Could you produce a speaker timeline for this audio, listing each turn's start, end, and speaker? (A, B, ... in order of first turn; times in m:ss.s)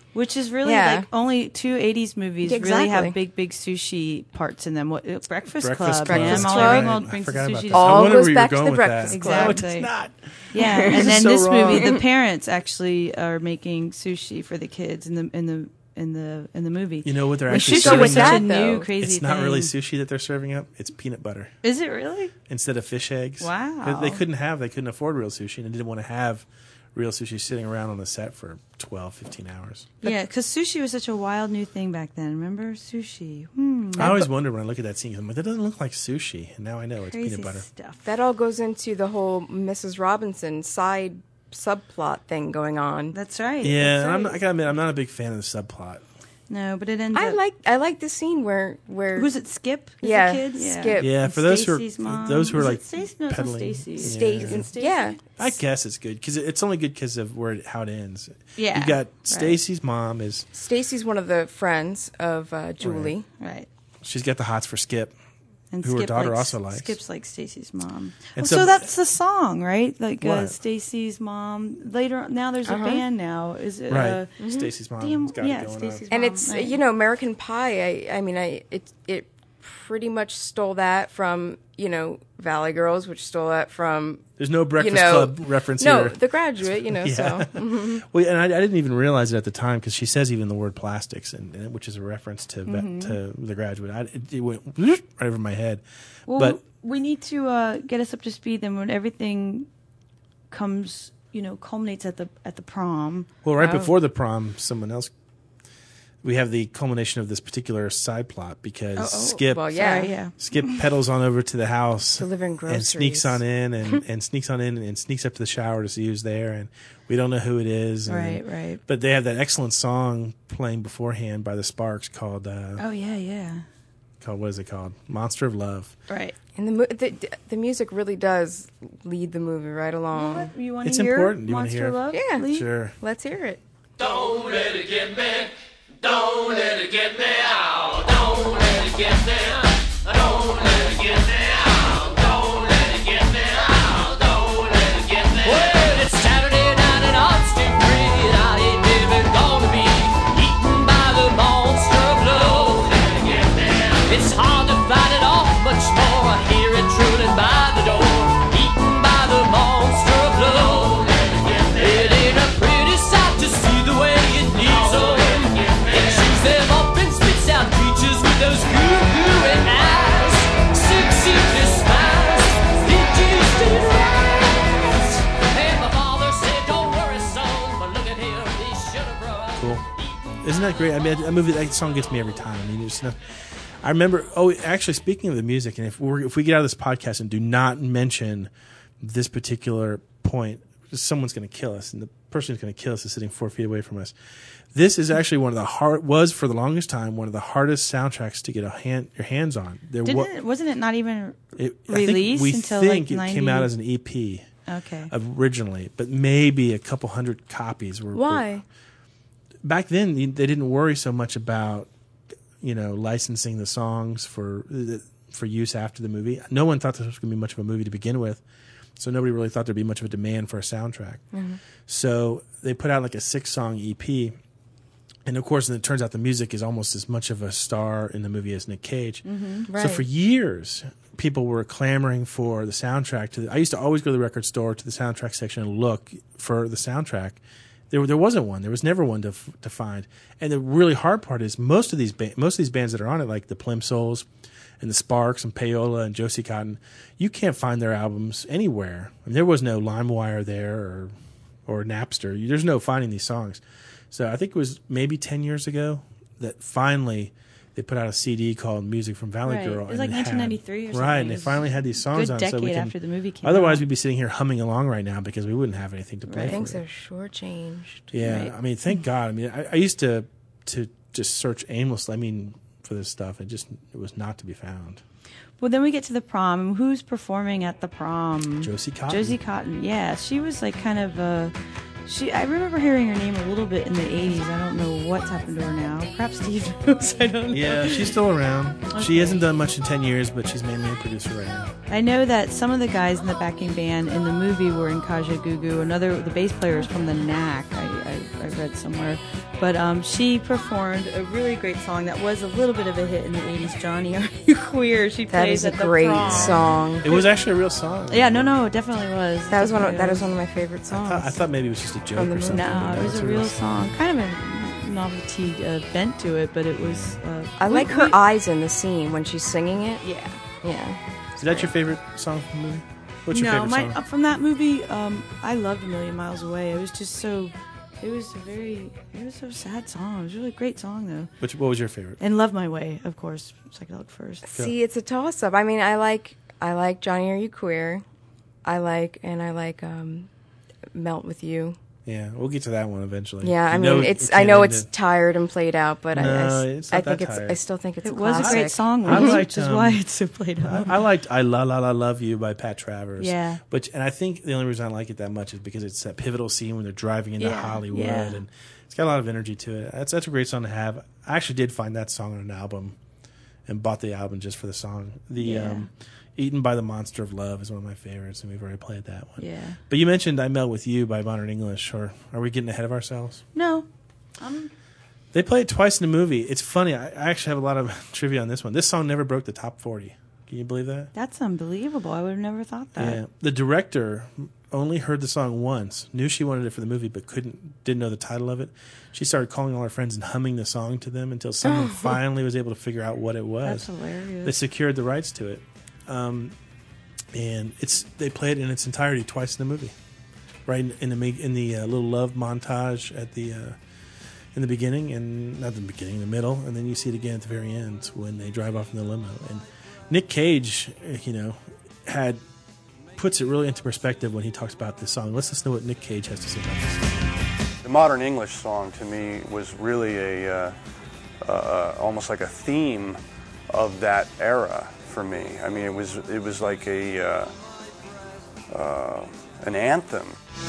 0:00.2-0:08.3 A
0:00.6-0:01.1 B
0:02.4-0:03.2 B
0:05.6-0:12.0 C
0:06.1-0:06.9 B
0:07.7-0:09.6 B
0:09.1-0:09.9 A
0:10.5-0:19.7 A
0:10.6-0:11.1 B
0:11.6-0:12.0 B
0:17.0-0:21.5 C
0:17.5-0:18.9 B
0:21.6-0:22.3 A
0:22.5-0:29.9 C
0:23.4-0:24.2 A
0:30.0-0:34.2 A
0:34.0-0:37.7 C
0:37.0-0:38.1 A
0:38.0-0:43.2 B
0:43.1-0:44.4 A
0:43.6-0:46.0 C
0:46.5-0:47.4 A
0:47.1-0:49.3 B
0:49.2-0:55.2 A
0:50.0-0:51.1 B
0:51.0-0:54.7 C
0:54.0-0:55.4 B
0:55.4-1:00.5 C
0:58.6-0:59.6 A
1:00.5-1:03.3 B
1:02.8-1:03.1 C
1:03.4-1:03.7 A
1:04.0-1:05.2 C
1:05.7-1:14.3 A
1:05.8-1:07.0 C
1:08.4-1:08.9 C
1:10.2-1:10.6 C
1:12.6-1:13.0 B
1:13.9-1:16.0 C
1:14.4-1:14.7 B
1:15.0-1:16.8 A
1:16.1-1:28.0 B
1:24.4-1:35.8 C
1:32.7-1:33.2 A
1:36.3-1:39.7 A
1:36.4-1:36.6 C
1:40.5-1:43.3 A
1:43.4-1:45.1 C
1:46.2-1:49.7 C
1:49.0-1:50.7 A
1:49.5-1:50.2 B
1:50.4-2:02.8 C
1:52.2-1:53.4 B
1:58.1-1:58.8 A
2:02.8-2:03.6 A
2:04.2-2:06.0 C
2:06.1-2:06.4 A
2:06.6-2:10.5 B
2:10.1-2:12.7 A
2:10.8-2:13.0 C
2:12.1-2:12.4 B
2:13.0-2:13.6 B
2:14.0-2:15.5 D
2:16.0-2:19.5 D
2:20.0-2:59.6 D
2:59.6-2:59.9 C
3:00.4-3:03.2 C
3:03.8-3:08.5 C
3:09.0-3:14.2 C
3:14.7-3:20.3 C
3:20.0-3:23.7 A
3:21.6-3:24.5 C
3:24.7-3:25.1 A
3:25.1-3:28.5 C
3:28.1-3:28.6 B
3:29.6-3:31.9 C
3:32.6-3:38.4 C
3:39.0-3:41.2 C
3:41.3-3:41.6 B
3:41.9-3:44.4 C
3:45.2-4:04.3 C
3:49.2-3:49.7 A
3:49.7-3:50.0 B
4:04.8-4:11.1 C
4:11.7-4:26.8 C
4:19.4-4:23.8 A
4:26.3-4:26.7 A
4:26.5-4:28.1 B
4:28.1-4:35.0 C
4:28.2-4:28.5 A
4:35.6-4:41.6 A
4:38.6-4:39.4 C
4:42.1-4:48.2 A
4:47.5-4:51.7 C
4:48.9-4:49.4 A
4:51.9-5:07.3 A
5:05.3-5:07.0 B
5:06.2-5:08.6 C
5:08.1-5:10.3 A
5:09.5-5:11.4 B
5:10.9-5:13.6 C
5:12.2-5:12.7 B
5:12.4-5:18.2 A
5:16.8-5:17.2 C
5:17.6-5:20.0 B
5:20.0-5:20.4 A
5:20.6-5:21.7 B
5:21.4-5:24.0 C
5:23.3-5:31.3 A
5:31.4-5:32.2 C
5:32.2-5:34.5 A
5:34.4-5:38.0 B
5:38.6-5:40.3 B
5:40.9-5:41.8 B
5:42.1-5:44.9 C
5:43.4-5:49.3 B
5:46.1-5:47.6 C
5:48.0-5:51.0 A
5:48.4-5:50.0 C
5:50.6-6:03.0 C
5:53.2-5:53.6 A
5:57.4-5:58.4 A
6:03.7-6:13.4 C
6:05.4-6:05.9 A
6:09.4-6:09.8 A
6:13.6-6:13.9 A
6:14.4-6:14.7 A
6:15.3-6:21.1 C
6:21.2-6:23.2 A
6:23.0-6:33.9 C
6:31.6-6:32.2 B
6:33.6-6:34.6 A
6:34.4-6:36.6 C
6:37.3-6:40.0 C
6:40.7-6:43.8 C
6:44.5-6:52.4 C
6:53.2-6:57.2 C
6:57.8-7:00.7 E
7:01.4-7:03.2 E
7:03.7-7:07.5 E
7:08.7-7:10.4 E